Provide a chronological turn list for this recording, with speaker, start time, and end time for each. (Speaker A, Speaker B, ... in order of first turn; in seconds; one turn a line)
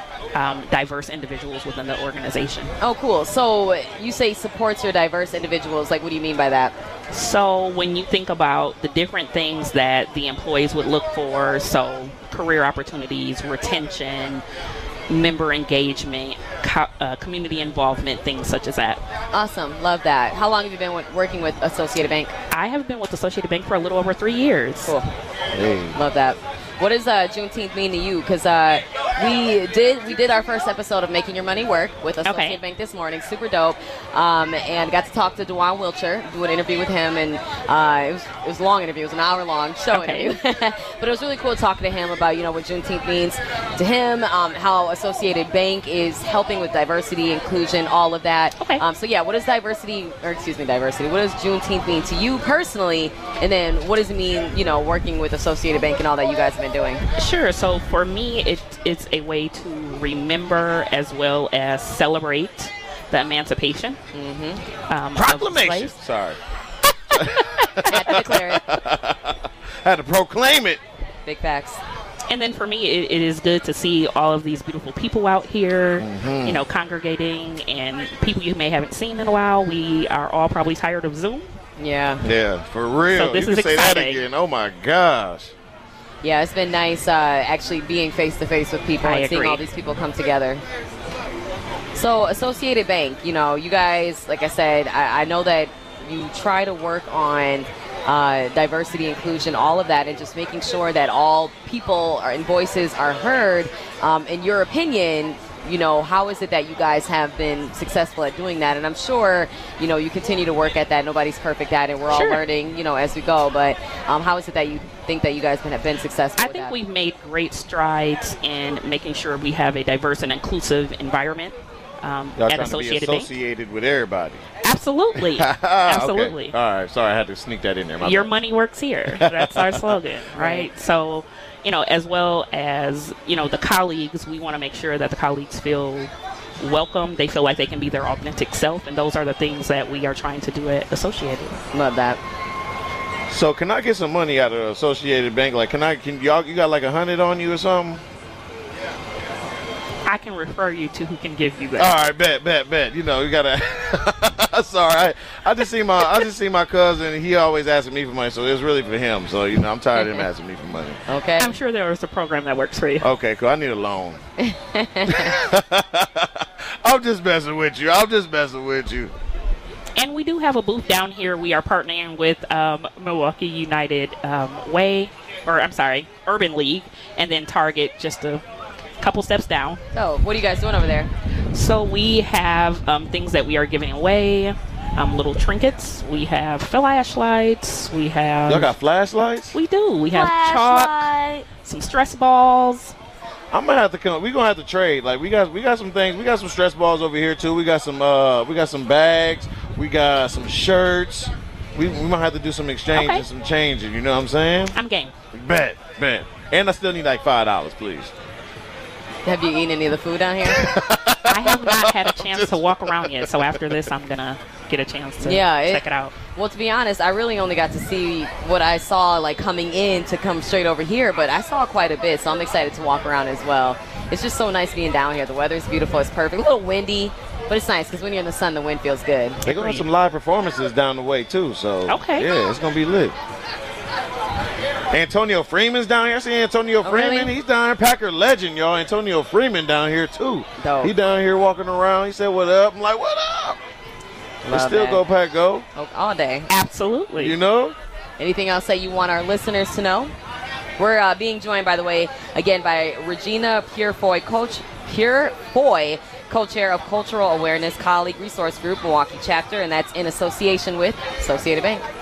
Speaker A: 0.3-2.7
Speaker B: 2.8-6.8
Speaker A: 7.1-14.4
Speaker A: 15.1-19.0
Speaker B: 19.3-22.3
Speaker A: 22.5-25.0
Speaker C: 25.5-26.0
Speaker B: 25.9-57.0
Speaker A: 32.2-32.6
Speaker A: 39.9-40.3
Speaker A: 57.2-64.0
Speaker B: 64.1-64.6
Speaker A: 64.9-66.0
Speaker C: 65.2-66.4
Speaker A: 67.1-67.9
Speaker C: 67.2-70.8
Speaker B: 67.8-68.6
Speaker B: 71.2-71.8
Speaker A: 72.3-81.5
Speaker C: 76.0-76.6
Speaker B: 81.8-82.2
Speaker C: 82.2-85.5
Speaker A: 83.1-84.2
Speaker B: 86.2-90.6
Speaker A: 89.0-89.6
Speaker B: 91.9-116.8
Speaker A: 112.1-112.4
Speaker A: 116.4-123.3
Speaker C: 122.4-124.4
Speaker A: 124.6-126.5
Speaker C: 125.2-128.3
Speaker A: 128.0-141.6
Speaker C: 129.2-130.7
Speaker B: 141.7-142.2
Speaker C: 143.3-148.0
Speaker A: 150.1-151.9
Speaker C: 151.8-161.0
Speaker B: 161.1-161.6
Speaker A: 161.4-163.1
Speaker C: 163.0-164.2
Speaker B: 164.4-165.3
Speaker C: 165.1-169.1
Speaker A: 170.0-178.4
Speaker A: 179.0-179.8
Speaker B: 179.9-181.1
Speaker A: 181.5-188.7
Speaker C: 188.5-189.6
Speaker A: 189.5-192.9
Speaker B: 190.1-191.5
Speaker C: 193.5-204.8
Speaker A: 202.9-203.3
Speaker A: 204.8-205.1
Speaker C: 205.3-208.1
Speaker B: 209.2-210.7
Speaker C: 210.5-213.8
Speaker A: 211.3-216.2
Speaker B: 215.2-229.4
Speaker C: 229.4-233.2
Speaker A: 229.5-229.9
Speaker A: 231.9-232.3
Speaker C: 234.9-243.6
Speaker B: 236.8-237.3
Speaker B: 240.6-240.9
Speaker B: 244.4-245.0
Speaker C: 244.5-245.7
Speaker B: 245.8-246.5
Speaker A: 246.5-247.4
Speaker C: 247.2-247.8
Speaker B: 248.2-250.1
Speaker B: 250.8-261.9